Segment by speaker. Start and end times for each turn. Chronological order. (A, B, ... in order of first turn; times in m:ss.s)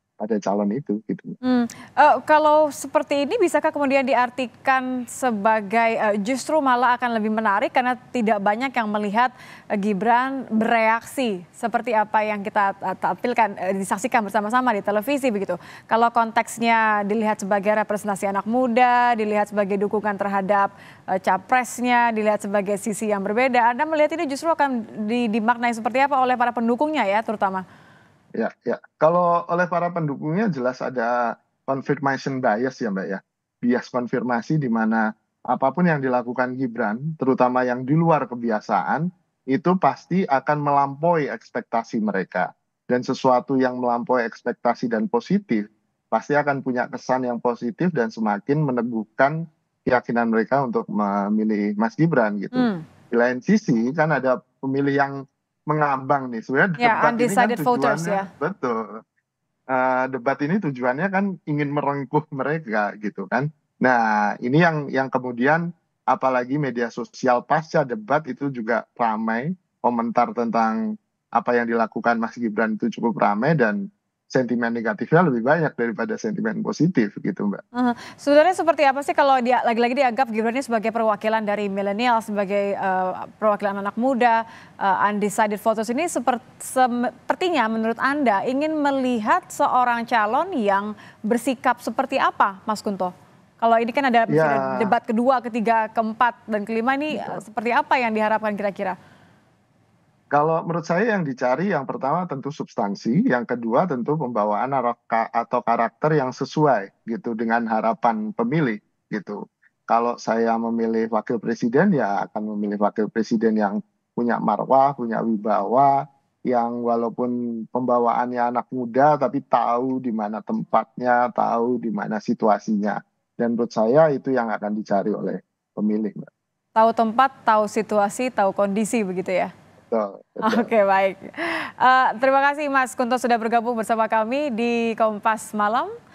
0:00.2-0:01.4 A
0:01.4-0:27.6 B
0:28.4-0:55.2 A
0:52.5-0:52.8 B
0:55.7-0:59.0 A
0:56.8-0:58.3 B
0:59.7-1:10.8 A
1:11.4-1:13.8 A
1:14.3-1:17.6 A
1:17.7-1:39.0 B
1:34.3-1:34.9 A
1:37.1-1:37.4 A
1:40.3-2:06.3 A
2:06.8-2:09.5 B
2:09.9-2:10.7 A
2:10.4-2:15.9 B